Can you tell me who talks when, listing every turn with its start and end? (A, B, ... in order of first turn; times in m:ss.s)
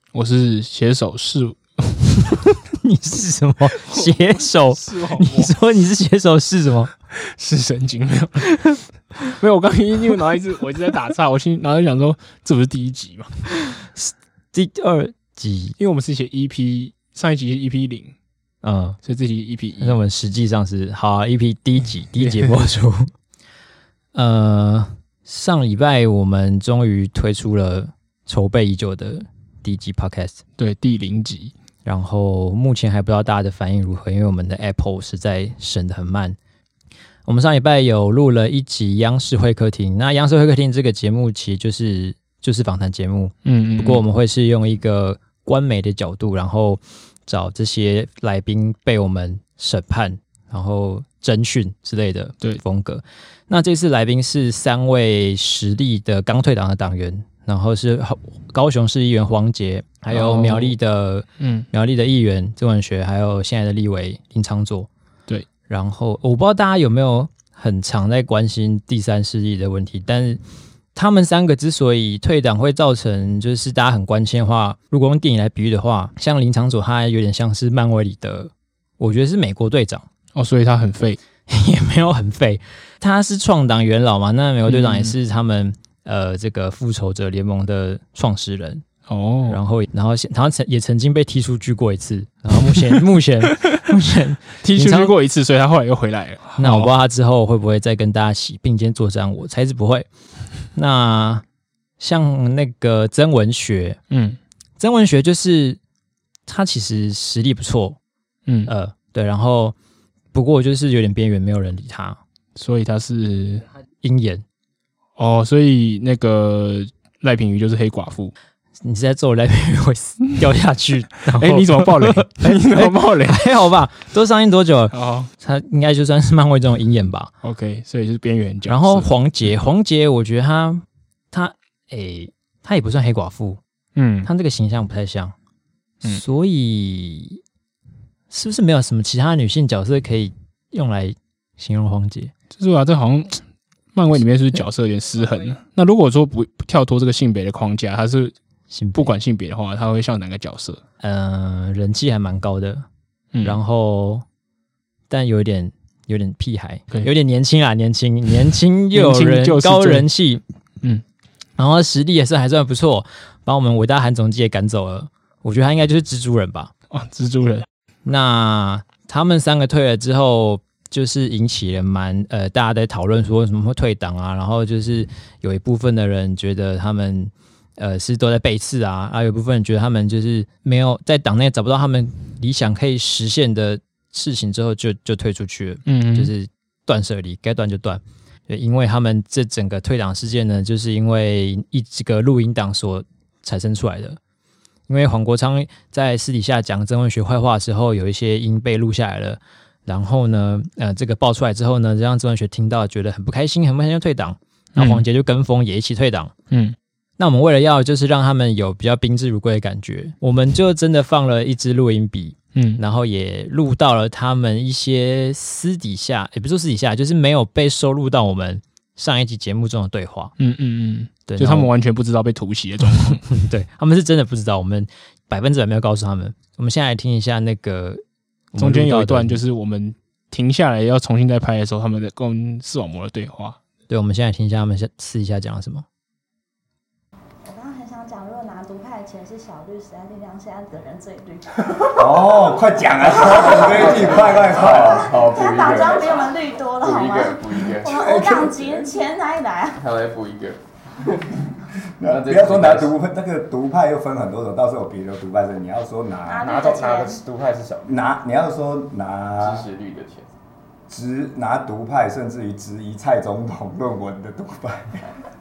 0:00.1-0:02.3 A
0:02.3-0:06.9 B
0:03.8-0:05.5 A
0:07.1-0:08.5 A
0:08.5-0:08.8 B
0:09.2-0:13.3 A
0:13.6-0:15.8 B
0:15.8-0:18.1 A
0:18.6-0:19.0 B
0:19.0-0:20.0 A
0:19.8-0:23.1 B
0:22.2-0:22.6 A
0:24.1-0:30.4 B
0:30.6-0:31.5 A
0:31.8-0:36.4 B
0:37.3-1:04.9 B
0:43.4-0:44.0 A
1:00.1-1:00.8 A
1:01.4-1:01.7 A
1:05.7-1:10.4 B
1:11.0-1:20.0 B
1:20.4-1:21.2 A
1:21.5-1:28.8 B
1:24.7-1:25.2 A
1:29.1-1:29.6 A
1:29.5-1:35.1 B
1:34.6-1:36.9 A
1:36.6-1:40.1 B
1:40.8-1:41.4 B
1:42.0-1:44.0 B
1:44.1-1:44.4 A
1:44.8-1:45.8 B
1:46.5-1:48.0 B
1:48.5-1:48.7 A
1:48.7-1:49.8 B
1:50.3-1:52.2 B
1:52.6-1:53.6 A
1:54.0-1:54.4 B
1:55.2-1:58.3 A
1:58.8-2:07.3 B
2:01.3-2:03.4 A
2:04.9-2:05.3 A
2:07.4-2:09.1 A
2:08.7-2:13.6 B
2:14.0-2:14.3 A
2:14.2-2:15.3 B
2:16.0-2:17.4 B
2:18.3-2:22.3 B
2:22.6-2:23.4 A
2:23.9-2:28.3 A
2:28.7-2:29.1 B
2:29.0-2:30.8 A
2:31.0-2:32.8 B
2:33.3-2:33.6 A
2:33.4-2:34.2 B
2:35.1-2:40.4 B
2:38.9-2:40.1 A
2:41.6-2:46.7 B
2:46.9-2:47.7 A
2:48.0-3:14.2 B
3:05.9-3:06.3 A
3:14.9-3:26.3 B
3:24.8-3:25.0 A
3:26.5-3:26.8 A
3:27.2-3:40.3 B
3:32.5-3:32.8 A
3:40.4-3:43.2 A
3:41.3-3:41.7 B
3:43.2-3:48.0 B
3:48.5-3:49.4 B
3:48.6-3:53.6 A
3:53.9-3:55.8 B
3:57.4-4:01.5 C
4:01.9-4:05.3 D
4:03.1-4:08.9 E
4:03.8-4:09.8 C
4:09.8-4:10.6 E
4:12.0-4:16.5 D
4:12.0-4:12.9 E
4:16.3-4:17.2 C
4:16.4-4:17.9 E
4:17.9-4:19.7 D
4:19.4-4:20.3 E
4:20.9-4:25.0 D